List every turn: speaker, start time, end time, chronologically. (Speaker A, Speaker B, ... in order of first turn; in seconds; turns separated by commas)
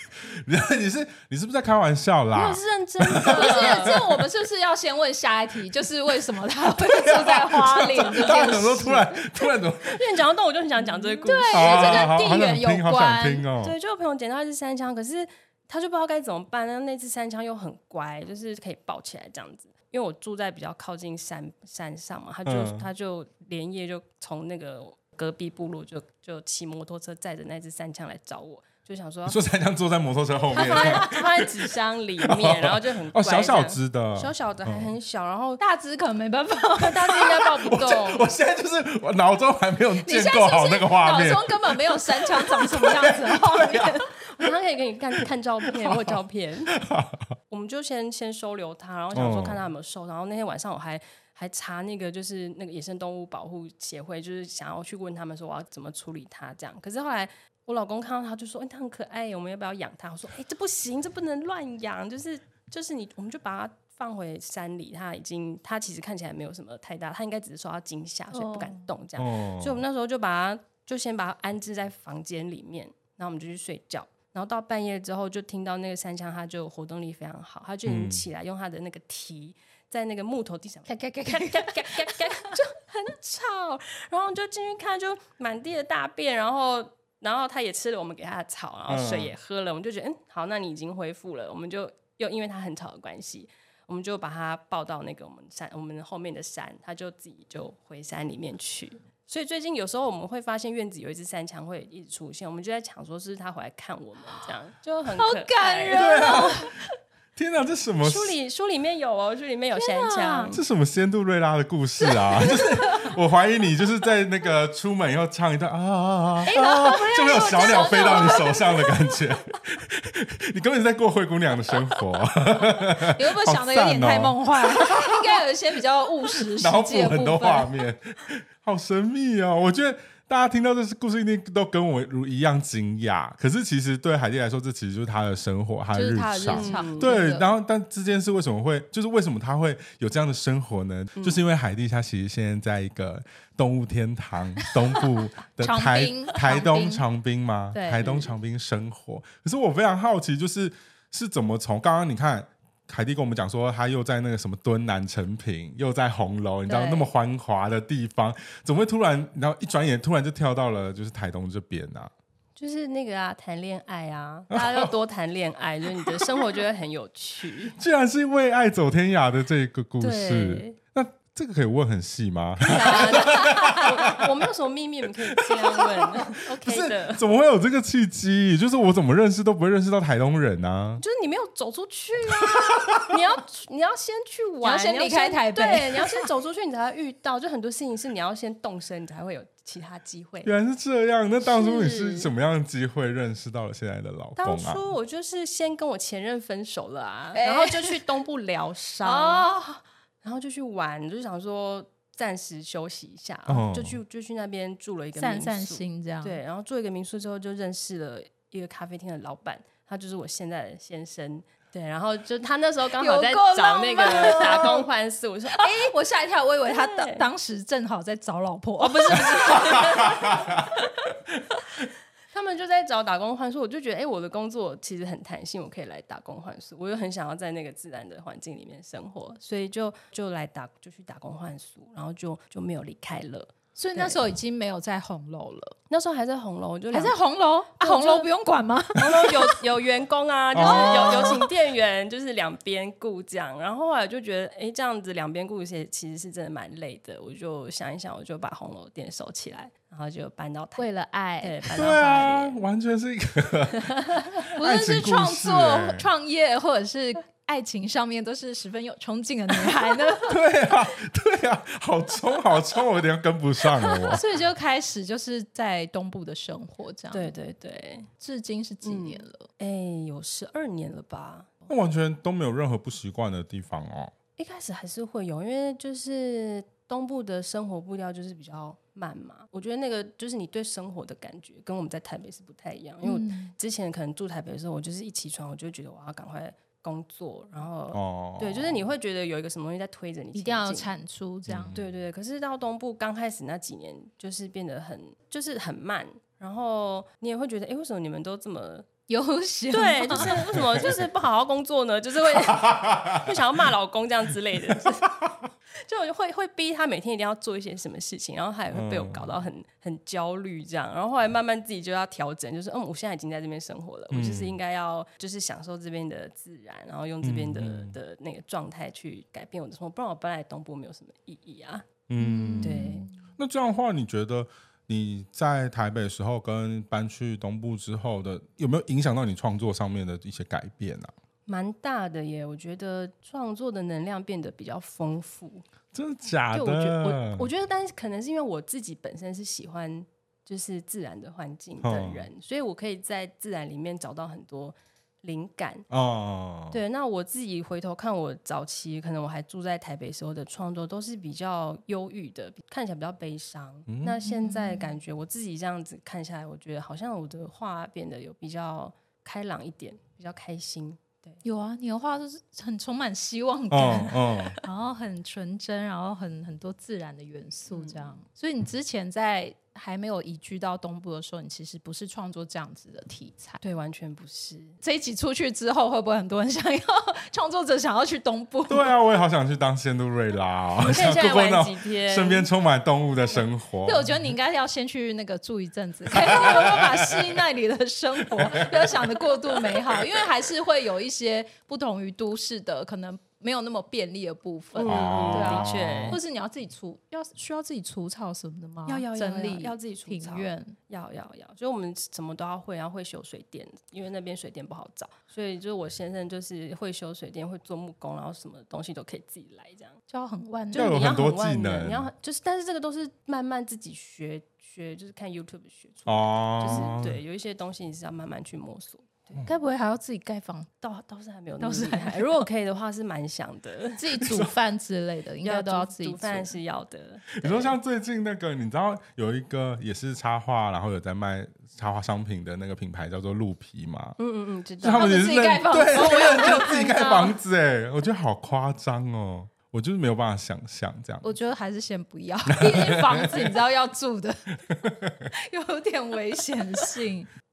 Speaker A: 0.2-4.0, Speaker B: 2.3-4.0, Speaker C: 3.2-9.2, Speaker A: 6.8-10.1, Speaker B: 8.0-8.5, Speaker B: 9.8-12.2, Speaker C: 11.2-13.5, Speaker A: 11.5-13.7, Speaker B: 13.6-29.4, Speaker A: 22.4-22.9, Speaker A: 29.2-34.9, Speaker B: 30.5-35.6, Speaker C: 30.7-31.1, Speaker C: 35.6-37.4, Speaker B: 36.8-38.3, Speaker A: 37.6-43.9, Speaker C: 40.0-44.0, Speaker B: 43.7-46.7, Speaker A: 45.8-46.1, Speaker A: 46.7-47.3, Speaker B: 47.5-106.5, Speaker A: 49.1-49.6, Speaker C: 68.3-68.9, Speaker A: 69.2-69.8, Speaker A: 77.8-78.2, Speaker C: 80.9-82.5, Speaker A: 88.9-89.3, Speaker C: 105.1-106.7, Speaker A: 105.9-106.7, Speaker A: 107.3-108.3, Speaker B: 108.0-110.6, Speaker C: 109.7-110.5, Speaker A: 110.5-125.1, Speaker C: 112.3-113.1, Speaker C: 116.5-119.0, Speaker B: 116.5-118.5, Speaker C: 123.1-127.8, Speaker A: 126.5-162.1, Speaker C: 135.9-137.4, Speaker B: 136.5-137.1, Speaker B: 141.1-141.4, Speaker C: 145.6-147.0, Speaker B: 147.7-148.3, Speaker B: 156.7-157.0, Speaker B: 162.6-167.8, Speaker A: 164.5-164.9, Speaker A: 167.8-174.3, Speaker B: 170.0-170.8, Speaker B: 172.6-177.2, Speaker A: 175.3-181.0, Speaker B: 181.0-190.5, Speaker A: 182.3-183.1, Speaker C: 184.6-186.3, Speaker A: 190.4-194.9, Speaker B: 191.4-192.3, Speaker B: 194.4-199.5, Speaker C: 197.3-198.0, Speaker C: 199.0-199.8, Speaker B: 200.2-215.9, Speaker A: 203.5-204.0, Speaker C: 205.2-206.4, Speaker C: 213.0-214.8, Speaker C: 215.5-220.2, Speaker B: 216.6-217.2, Speaker B: 218.8-220.8, Speaker A: 219.7-220.6, Speaker B: 222.3-234.2, Speaker C: 233.8-235.8, Speaker B: 235.9-237.2, Speaker C: 236.9-239.6, Speaker B: 237.8-238.3, Speaker B: 238.9-250.8, Speaker A: 240.5-241.4, Speaker C: 240.6-241.4, Speaker C: 250.8-251.9, Speaker B: 251.4-252.6, Speaker A: 251.8-256.1, Speaker B: 253.8-254.4, Speaker C: 254.5-260.4, Speaker A: 260.3-264.2, Speaker C: 263.9-267.3, Speaker B: 267.1-268.1, Speaker C: 268.2-269.5, Speaker B: 268.8-271.5, Speaker A: 271.7-274.1, Speaker B: 274.4-290.9, Speaker C: 283.0-283.5, Speaker A: 287.9-288.9, Speaker C: 290.3-291.7, Speaker A: 291.5-291.9, Speaker B: 291.7-298.9, Speaker C: 299.1-300.4, Speaker B: 299.7-321.9, Speaker A: 300.2-300.9, Speaker A: 302.6-303.2, Speaker A: 308.7-309.3, Speaker A: 314.1-314.6, Speaker A: 317.2-317.9, Speaker A: 322.1-331.1, Speaker C: 322.2-323.1, Speaker B: 322.6-323.1, Speaker B: 331.5-335.6, Speaker A: 335.9-337.5, Speaker B: 336.5-345.9, Speaker A: 341.8-342.3, Speaker A: 345.9-346.8, Speaker B: 346.7-361.4, Speaker A: 353.9-354.2, Speaker C: 354.2-354.8, Speaker C: 361.4-373.6, Speaker A: 363.7-364.6, Speaker B: 367.7-368.1, Speaker B: 373.6-374.8, Speaker C: 374.8-378.9, Speaker A: 378.7-384.1, Speaker B: 380.8-382.5, Speaker C: 383.8-400.7, Speaker A: 386.1-387.2, Speaker A: 388.4-389.0, Speaker B: 394.7-396.2, Speaker A: 394.8-396.2, Speaker B: 398.9-410.0, Speaker C: 410.1-411.0, Speaker B: 410.7-419.4, Speaker A: 410.7-412.1, Speaker A: 416.1-417.2, Speaker C: 419.4-420.7, Speaker B: 420.8-424.5, Speaker C: 421.6-422.5, Speaker C: 424.0-426.5, Speaker B: 425.4-427.7, Speaker A: 427.3-434.2, Speaker B: 434.2-435.2, Speaker A: 434.8-441.3, Speaker C: 434.9-437.4, Speaker B: 435.9-436.7, Speaker C: 441.2-444.6, Speaker A: 442.5-443.4, Speaker A: 444.7-445.2, Speaker C: 445.3-447.3